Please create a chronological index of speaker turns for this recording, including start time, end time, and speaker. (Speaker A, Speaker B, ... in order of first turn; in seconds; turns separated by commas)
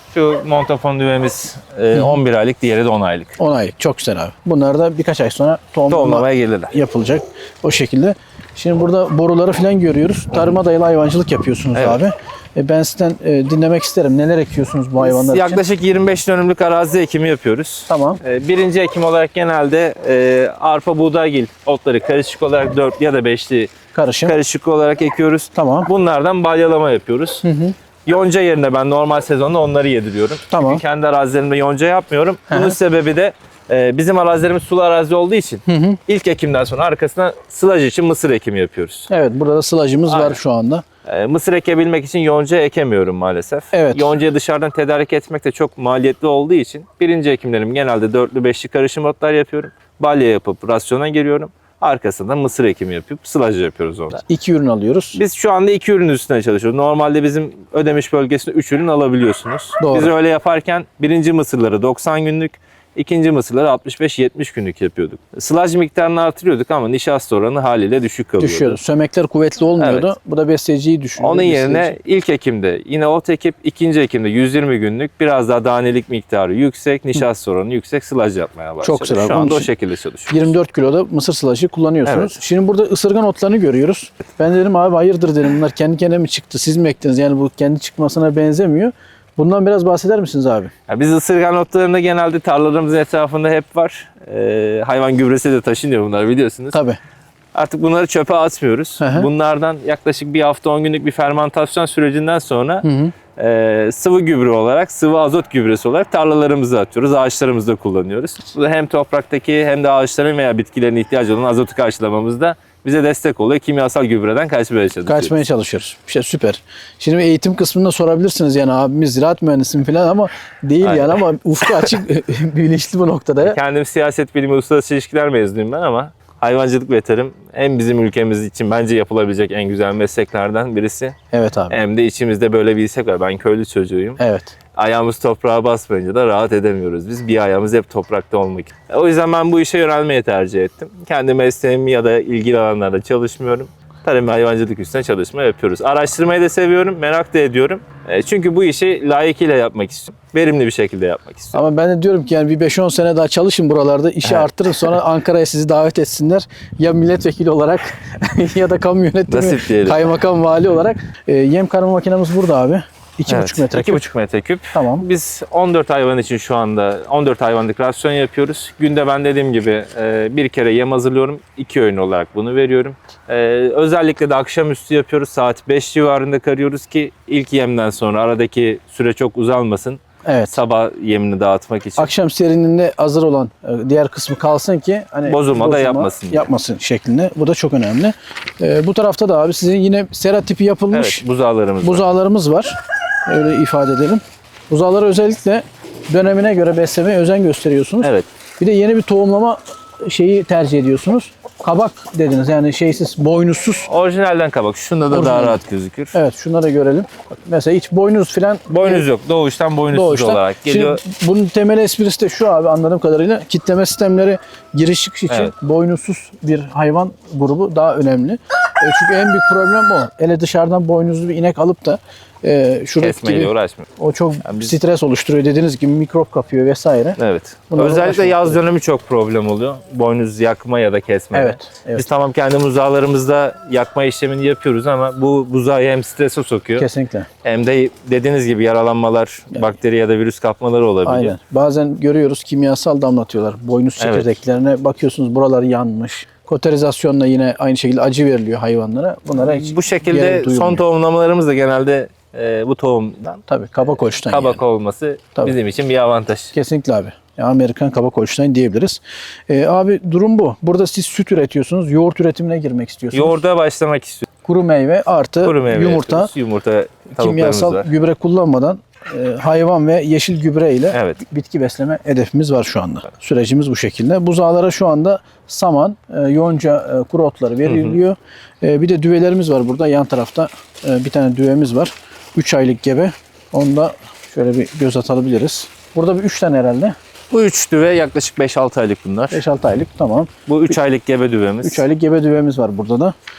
Speaker A: 0.1-3.4, Speaker B: 1.9-2.2, Speaker B: 3.4-15.6, Speaker A: 5.9-6.8, Speaker A: 11.7-12.0, Speaker A: 15.0-27.4, Speaker B: 17.9-18.2, Speaker B: 23.9-24.3, Speaker B: 25.6-25.9, Speaker B: 27.4-27.8, Speaker A: 28.0-39.1, Speaker B: 30.5-30.8, Speaker B: 32.5-32.8, Speaker B: 35.7-36.0, Speaker B: 39.1-40.8, Speaker A: 40.1-40.4, Speaker A: 41.0-54.2, Speaker B: 43.7-44.1, Speaker B: 54.3-55.2, Speaker A: 55.1-68.8, Speaker B: 59.8-60.1, Speaker B: 68.4-71.9, Speaker A: 69.8-70.1, Speaker A: 71.2-80.5, Speaker B: 78.8-79.7, Speaker B: 80.3-90.7, Speaker A: 82.0-82.4, Speaker A: 90.9-96.8, Speaker B: 96.7-97.0, Speaker A: 97.5-115.4, Speaker B: 99.0-99.3, Speaker B: 102.8-103.1, Speaker B: 115.0-123.6, Speaker A: 120.8-121.2, Speaker A: 123.4-131.2, Speaker B: 131.3-131.8, Speaker A: 131.7-134.2, Speaker B: 134.2-134.5, Speaker A: 134.7-151.6, Speaker B: 151.5-164.0, Speaker A: 154.2-154.9, Speaker A: 159.3-160.2, Speaker A: 163.3-182.1, Speaker B: 164.7-165.0, Speaker B: 180.2-180.6, Speaker B: 182.0-191.2, Speaker A: 185.2-186.5, Speaker A: 190.9-192.0, Speaker B: 191.8-203.9, Speaker A: 198.0-198.3, Speaker A: 203.9-206.2, Speaker B: 205.1-205.6, Speaker B: 206.1-209.0, Speaker A: 208.7-211.0, Speaker B: 209.9-227.2, Speaker A: 223.0-223.9, Speaker A: 224.4-224.7, Speaker A: 227.2-236.9, Speaker B: 227.7-228.6, Speaker B: 231.3-232.0, Speaker B: 236.8-237.3, Speaker A: 237.4-241.3, Speaker B: 241.1-250.8, Speaker A: 244.0-244.3, Speaker A: 249.3-253.4, Speaker B: 253.5-254.6, Speaker A: 254.3-256.5, Speaker B: 256.5-263.4, Speaker A: 263.1-264.3, Speaker B: 264.4-266.3, Speaker A: 265.4-267.9, Speaker B: 267.1-286.9, Speaker A: 270.9-271.2, Speaker A: 277.6-278.0, Speaker A: 287.3-289.4, Speaker B: 289.3-290.8, Speaker A: 290.5-291.8, Speaker B: 291.6-293.1